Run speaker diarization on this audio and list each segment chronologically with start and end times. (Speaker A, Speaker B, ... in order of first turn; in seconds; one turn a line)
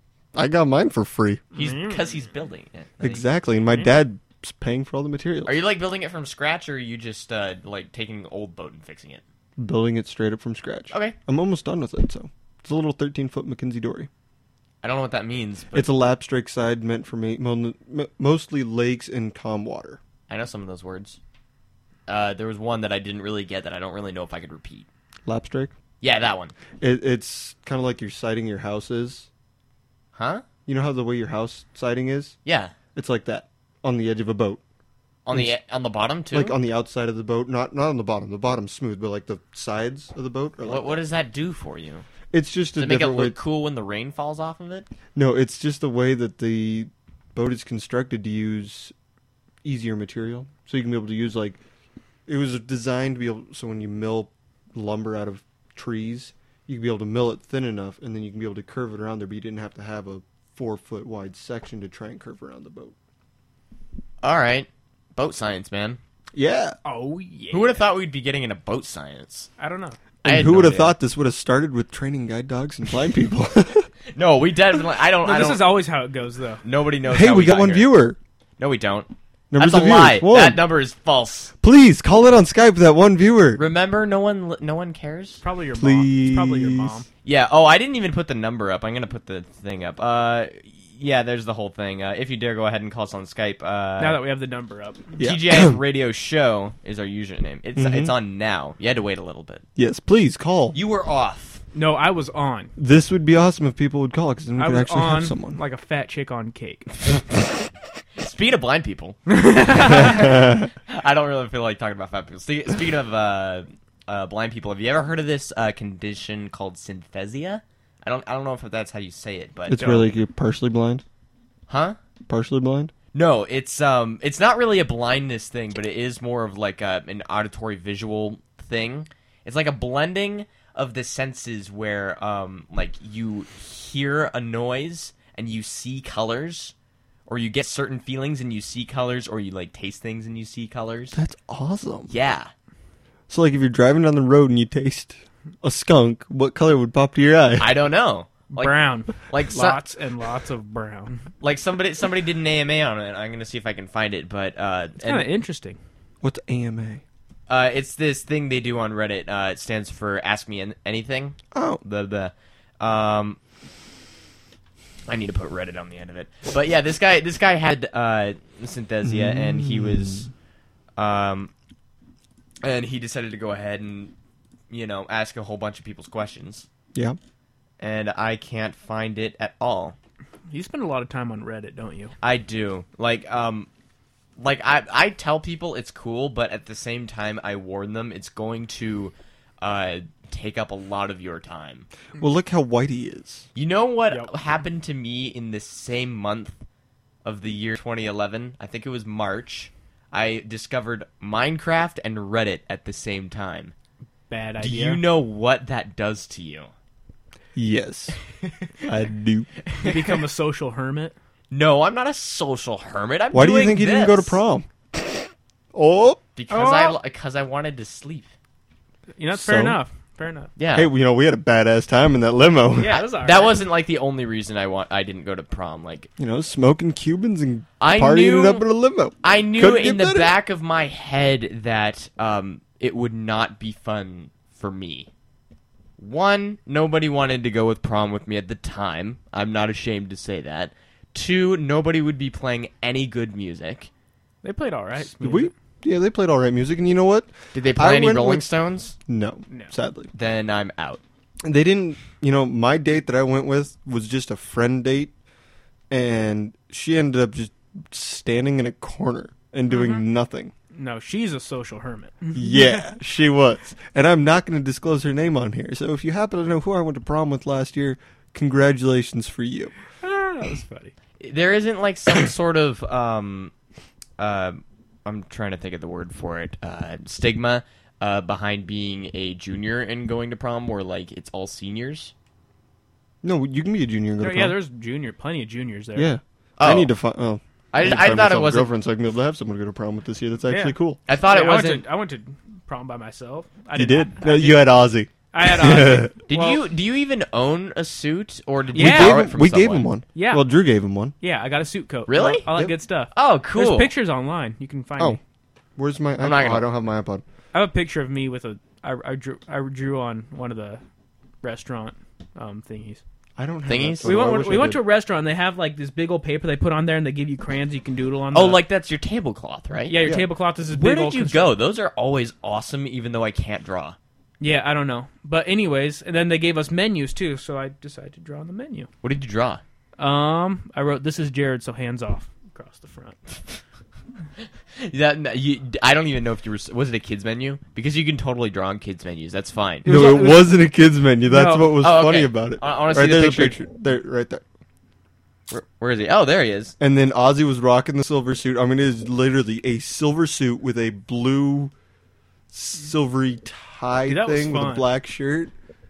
Speaker A: 0.3-1.4
Speaker B: 1.5-3.2
Speaker C: 1.6-2.1
Speaker A: 3.0-5.6
Speaker B: 5.5-9.2
Speaker A: 9.6-14.1
Speaker B: 10.9-11.2
Speaker B: 14.8-15.9
Speaker A: 15.7-20.0
Speaker B: 20.3-21.2
Speaker B: 22.1-24.9
Speaker A: 25.3-25.7
Speaker B: 26.0-26.5
Speaker A: 26.8-29.3
Speaker B: 30.1-30.4
Speaker A: 30.7-32.4
Speaker B: 32.5-32.8
Speaker A: 33.0-34.6
Speaker B: 35.3-36.6
Speaker A: 36.3-41.0
Speaker B: 40.6-42.0
Speaker A: 42.3-43.4
Speaker B: 42.8-44.9
Speaker A: 45.1-48.9
Speaker A: 49.6-51.6
Speaker A: 52.3-63.0
Speaker B: 64.2-66.0
Speaker A: 66.3-66.8
Speaker C: 66.8-67.8
Speaker B: 67.5-69.5
Speaker C: 69.6-70.0
Speaker B: 70.2-71.0
Speaker A: 70.2-73.9
Speaker B: 74.1-75.7
Speaker C: 75.2-76.6
Speaker B: 76.6-77.9
Speaker A: 77.1-78.2
Speaker B: 78.6-81.5
Speaker A: 79.5-80.7
Speaker A: 81.6-83.6
Speaker B: 83.6-85.4
Speaker C: 85.4-87.1
Speaker A: 85.8-87.0
Speaker B: 87.2-94.2
Speaker C: 94.0-95.2
Speaker A: 95.2-95.8
Speaker B: 95.2-99.6
Speaker A: 97.8-98.1
Speaker A: 99.8-100.8
Speaker B: 100.7-101.6
Speaker C: 101.7-102.7
Speaker A: 102.8-105.6
Speaker C: 104.6-106.9
Speaker B: 108.2-119.8
Speaker C: 109.3-110.3
Speaker A: 110.0-110.7
Speaker A: 119.7-121.0
Speaker C: 119.8-120.1
Speaker B: 121.7-122.0
Speaker A: 122.3-122.9
Speaker B: 123.1-136.8
Speaker B: 137.3-141.2
Speaker A: 141.1-142.1
Speaker B: 142.1-142.5
Speaker A: 143.3-147.7
Speaker B: 147.6-149.8
Speaker C: 148.5-151.3
Speaker B: 151.4-155.3
Speaker C: 155.0-155.8
Speaker A: 156.2-157.0
Speaker B: 157.5-163.4
Speaker A: 161.5-161.8
Speaker B: 165.1-170.3
Speaker A: 169.0-170.3
Speaker B: 171.0-171.5
Speaker B: 172.6-174.1
Speaker B: 174.7-176.7
Speaker B: 177.8-180.0
Speaker C: 180.5-182.1
Speaker B: 182.2-183.7
Speaker B: 184.4-191.9
Speaker A: 192.2-193.5
Speaker B: 193.6-196.6
Speaker B: 197.2-203.7
Speaker C: 204.3-205.0
Speaker B: 204.6-206.7
Speaker A: 207.6-208.2
Speaker B: 208.4-208.7
Speaker A: 208.8-209.5
Speaker B: 209.7-210.2
Speaker C: 209.8-211.1
Speaker B: 211.5-214.4
Speaker A: 213.3-215.2
Speaker A: 215.7-216.2
Speaker B: 216.4-218.3
Speaker C: 216.5-217.0
Speaker C: 219.2-220.5
Speaker A: 219.3-219.8
Speaker B: 220.6-220.9
Speaker A: 220.7-222.9
Speaker C: 222.8-223.6
Speaker B: 222.9-226.1
Speaker A: 226.2-230.3
Speaker B: 227.8-228.7
Speaker B: 229.2-235.1
Speaker B: 236.0-243.9
Speaker C: 244.4-245.5
Speaker A: 245.0-248.5
Speaker B: 247.5-248.9
Speaker A: 249.1-250.1
Speaker B: 250.1-251.0
Speaker A: 251.4-255.1
Speaker A: 255.9-260.5
Speaker C: 259.7-260.0
Speaker C: 260.7-262.8
Speaker A: 262.3-269.8
Speaker C: 270.0-270.9
Speaker B: 271.2-273.5
Speaker B: 274.2-282.1
Speaker A: 283.2-284.6
Speaker C: 284.2-286.1
Speaker A: 285.9-291.0
Speaker B: 286.6-286.9
Speaker B: 287.7-288.7
Speaker C: 290.5-294.7
Speaker B: 291.1-291.9
Speaker A: 293.7-296.1
Speaker C: 295.3-296.6
Speaker B: 296.3-299.9
Speaker C: 298.7-299.2
Speaker A: 298.8-301.1
Speaker C: 300.1-300.4
Speaker C: 301.2-305.2
Speaker B: 302.1-302.5
Speaker B: 303.1-303.9
Speaker A: 305.8-307.2
Speaker B: 306.2-306.6
Speaker C: 307.5-310.8
Speaker C: 311.4-313.0
Speaker A: 313.4-314.8
Speaker B: 313.7-314.1
Speaker C: 314.0-318.6
Speaker B: 318.3-320.0
Speaker C: 319.9-321.5
Speaker A: 320.0-320.3
Speaker B: 320.7-324.0
Speaker C: 324.4-328.9
Speaker B: 329.0-329.6
Speaker C: 330.0-333.2
Speaker B: 334.8-339.9
Speaker C: 339.8-340.6
Speaker A: 339.9-344.4
Speaker C: 341.3-341.8
Speaker B: 341.8-343.6
Speaker B: 345.5-346.8
Speaker A: 346.8-351.7
Speaker A: 352.5-355.5
Speaker C: 354.1-354.9